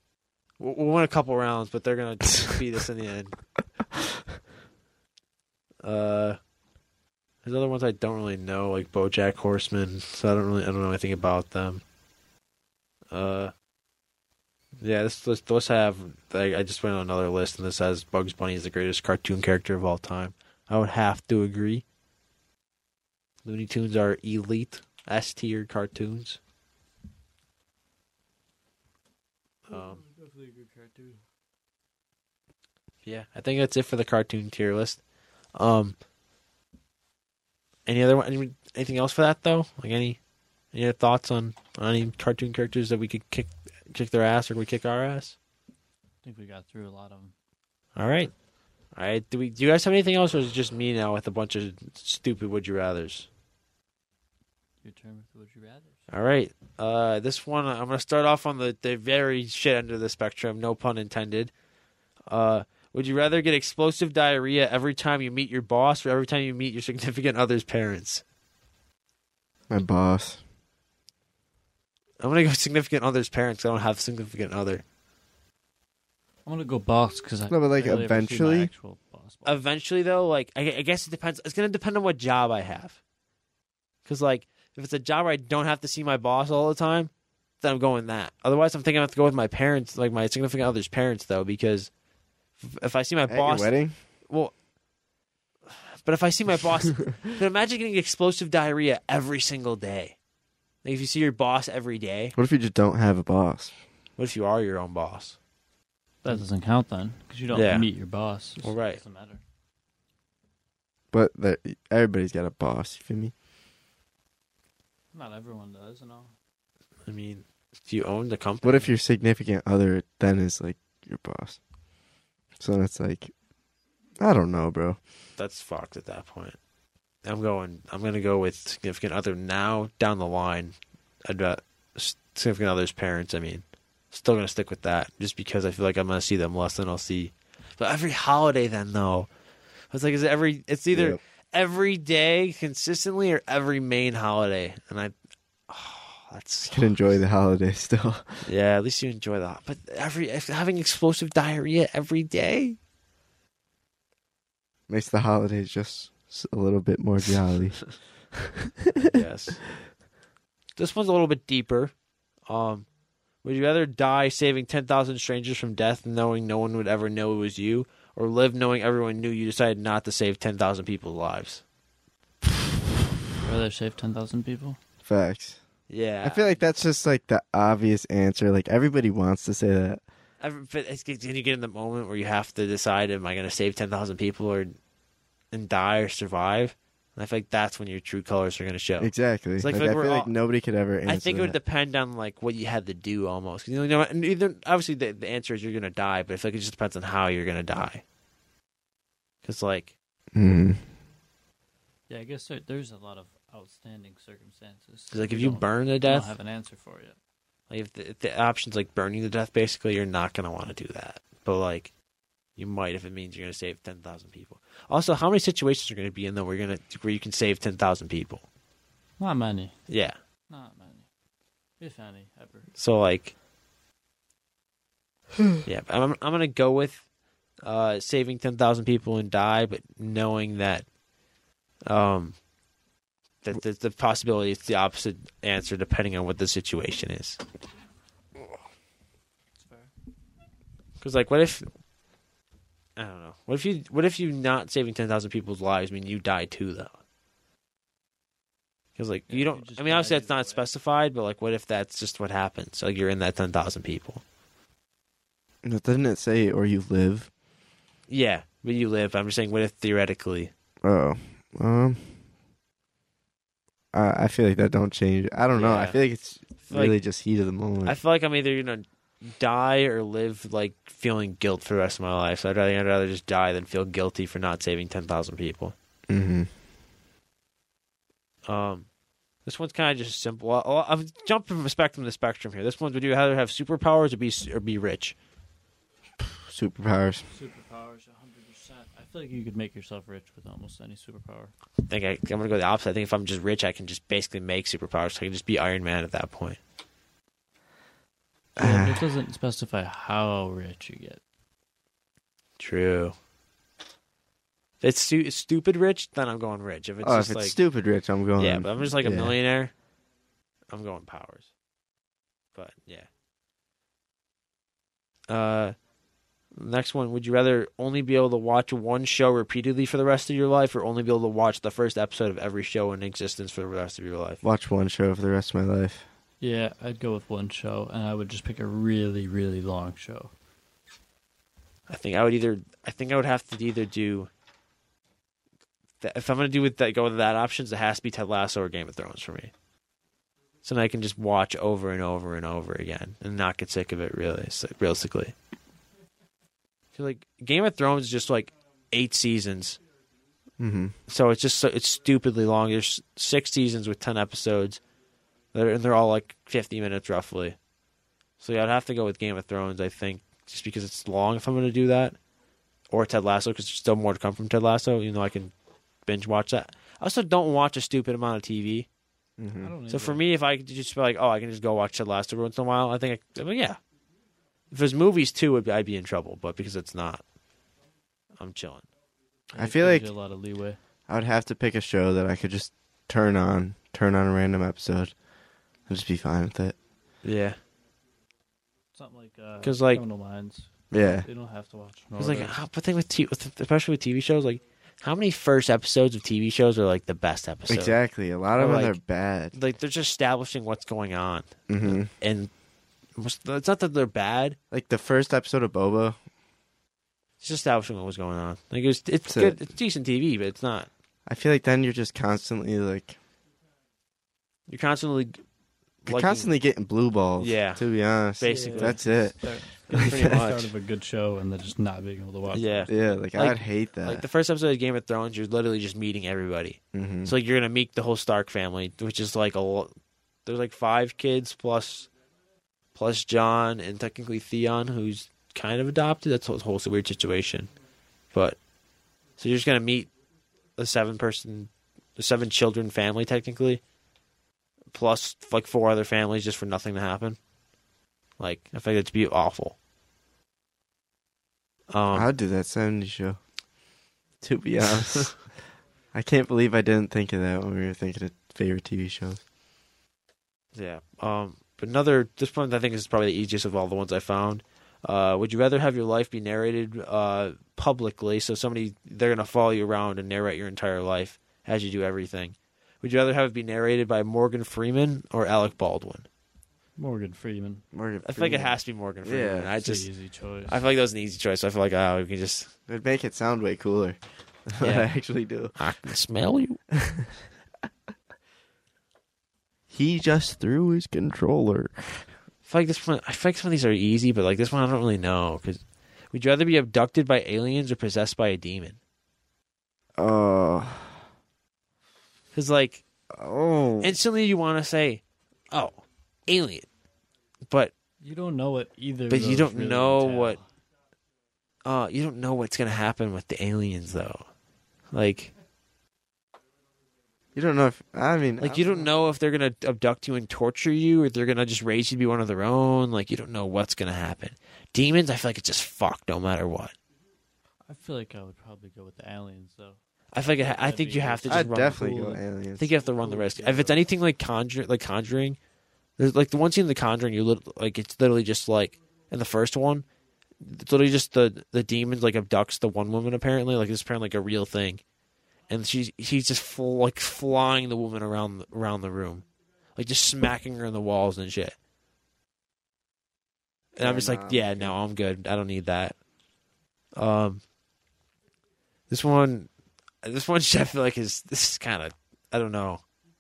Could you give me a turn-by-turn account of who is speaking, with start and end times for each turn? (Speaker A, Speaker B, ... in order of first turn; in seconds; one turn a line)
Speaker A: 0.6-3.4
Speaker A: 5.8-6.4
Speaker A: 7.4-11.8
Speaker A: 13.1-13.5
Speaker A: 14.8-21.8
Speaker A: 23.4-26.4
Speaker A: 29.7-30.0
Speaker B: 29.7-31.2
Speaker A: 33.0-35.0
Speaker A: 35.5-36.0
Speaker A: 37.9-40.2
Speaker A: 40.7-45.4
Speaker B: 46.2-47.3
Speaker A: 48.0-48.3
Speaker A: 48.9-53.3
Speaker B: 54.8-56.0
Speaker A: 56.1-61.5
Speaker A: 62.3-68.2
Speaker C: 69.7-70.4
Speaker A: 72.2-74.8
Speaker B: 76.5-79.6
Speaker C: 77.5-78.7
Speaker A: 79.5-83.0
Speaker A: 84.0-91.9
Speaker A: 92.6-94.5
Speaker C: 93.3-94.0
Speaker A: 95.7-100.2
Speaker A: 100.8-102.3
Speaker C: 102.4-103.7
Speaker A: 104.2-105.4
Speaker B: 106.2-109.4
Speaker A: 107.5-107.9
Speaker A: 108.6-109.0
Speaker C: 111.1-113.3
Speaker B: 115.1-116.3
Speaker A: 117.1-118.9
Speaker C: 118.6-121.6
Speaker C: 122.6-123.3
Speaker C: 124.2-125.0
Speaker A: 125.4-126.6
Speaker A: 127.2-139.3
Speaker A: 139.9-145.1
Speaker C: 140.9-141.2
Speaker A: 145.7-147.1
Speaker C: 146.7-148.5
Speaker A: 148.4-152.8
Speaker C: 154.9-159.2
Speaker A: 159.0-159.6
Speaker A: 160.8-161.9
Speaker A: 162.5-162.9
Speaker A: 163.4-171.6
Speaker B: 173.4-174.8
Speaker C: 175.0-175.6
Speaker A: 175.9-176.6
Speaker C: 176.2-180.0
Speaker A: 180.4-184.8
Speaker A: 185.5-190.3
Speaker C: 189.0-191.6
Speaker A: 191.1-198.0
Speaker A: 199.4-199.9
Speaker C: 200.3-200.8
Speaker B: 202.1-207.2
Speaker A: 205.1-206.3
Speaker A: 207.7-211.9
Speaker A: 212.6-218.4
Speaker B: 219.2-219.8
Speaker A: 219.9-220.2
Speaker B: 220.5-221.1
Speaker B: 221.8-222.7
Speaker A: 222.8-223.3
Speaker A: 225.6-227.0
Speaker A: 227.6-230.9
Speaker A: 231.9-232.4
Speaker A: 233.4-237.4
Speaker B: 239.6-239.9
Speaker A: 241.0-241.7
Speaker A: 243.0-247.0
Speaker A: 249.0-254.2
Speaker B: 249.3-250.7
Speaker C: 255.6-257.3
Speaker A: 258.1-260.5
Speaker C: 260.8-262.1
Speaker C: 263.9-268.0
Speaker A: 265.5-266.0
Speaker A: 266.7-267.0
Speaker A: 267.8-275.8
Speaker C: 276.1-276.5
Speaker A: 278.5-278.9
Speaker A: 279.5-285.1
Speaker C: 286.4-287.3
Speaker B: 287.3-291.5
Speaker A: 291.9-296.6
Speaker C: 298.6-299.1
Speaker B: 298.6-301.2
Speaker A: 302.6-303.1
Speaker A: 304.8-307.6
Speaker C: 307.0-309.4
Speaker A: 308.4-309.7
Speaker A: 310.7-311.5
Speaker A: 312.6-313.1
Speaker A: 315.3-315.8
Speaker A: 316.5-324.4
Speaker C: 324.4-326.1
Speaker B: 326.4-330.3
Speaker A: 331.9-334.3
Speaker A: 336.0-339.5
Speaker A: 340.6-345.4
Speaker A: 346.9-349.8
Speaker C: 350.6-350.9
Speaker A: 351.1-354.8
Speaker A: 355.5-357.6
Speaker A: 358.4-362.2
Speaker A: 362.9-365.5
Speaker A: 366.1-368.9
Speaker C: 369.4-369.7
Speaker B: 369.6-370.2
Speaker A: 369.9-373.8
Speaker A: 374.7-377.2
Speaker A: 378.4-378.9
Speaker B: 379.5-380.8
Speaker C: 379.6-380.1
Speaker C: 381.1-385.1
Speaker C: 385.9-386.8
Speaker A: 387.2-387.6
Speaker B: 388.9-392.6
Speaker A: 389.6-390.0
Speaker C: 390.9-391.3
Speaker A: 392.2-398.0
Speaker C: 397.7-399.6
Speaker A: 398.6-399.0
Speaker A: 399.5-402.5
Speaker C: 401.7-402.1
Speaker A: 403.2-404.6
Speaker C: 404.7-406.2
Speaker A: 407.4-410.9
Speaker C: 409.3-409.6
Speaker C: 411.3-413.2
Speaker A: 414.7-415.4
Speaker A: 416.0-416.5
Speaker C: 416.1-419.4
Speaker A: 417.4-417.8
Speaker A: 418.4-419.3
Speaker B: 418.5-422.9
Speaker C: 419.9-420.4
Speaker A: 419.9-420.7
Speaker A: 422.5-429.9
Speaker C: 422.9-424.3
Speaker C: 426.9-427.3
Speaker A: 430.5-432.1
Speaker A: 432.9-437.7
Speaker A: 439.4-440.1
Speaker A: 440.8-443.8
Speaker A: 444.9-447.4
Speaker A: 448.4-449.8
Speaker A: 451.9-452.3
Speaker C: 452.1-453.4
Speaker C: 454.4-455.5
Speaker C: 456.1-459.4
Speaker A: 460.8-476.3
Speaker B: 477.0-477.8
Speaker C: 477.9-479.8
Speaker A: 478.2-480.1
Speaker B: 479.8-480.8
Speaker A: 480.7-482.7
Speaker C: 482.9-485.8
Speaker A: 484.8-485.1
Speaker A: 485.8-486.8
Speaker C: 486.9-487.4
Speaker C: 489.9-492.3
Speaker A: 492.6-495.8
Speaker A: 496.3-499.0
Speaker C: 500.2-501.2
Speaker A: 502.5-503.0
Speaker C: 503.3-504.2
Speaker A: 504.0-506.9
Speaker B: 508.2-510.6
Speaker A: 509.3-510.6
Speaker A: 511.9-514.5
Speaker A: 515.1-515.5
Speaker C: 517.6-519.1
Speaker A: 518.6-527.0
Speaker B: 527.9-532.0
Speaker A: 530.3-535.6
Speaker C: 531.5-532.9
Speaker B: 533.2-534.0
Speaker A: 536.2-540.1
Speaker A: 540.6-545.0
Speaker A: 545.7-549.5
Speaker A: 550.0-551.8
Speaker A: 554.0-556.2
Speaker C: 554.0-555.0
Speaker A: 557.2-557.6
Speaker A: 559.1-559.7
Speaker A: 560.2-563.0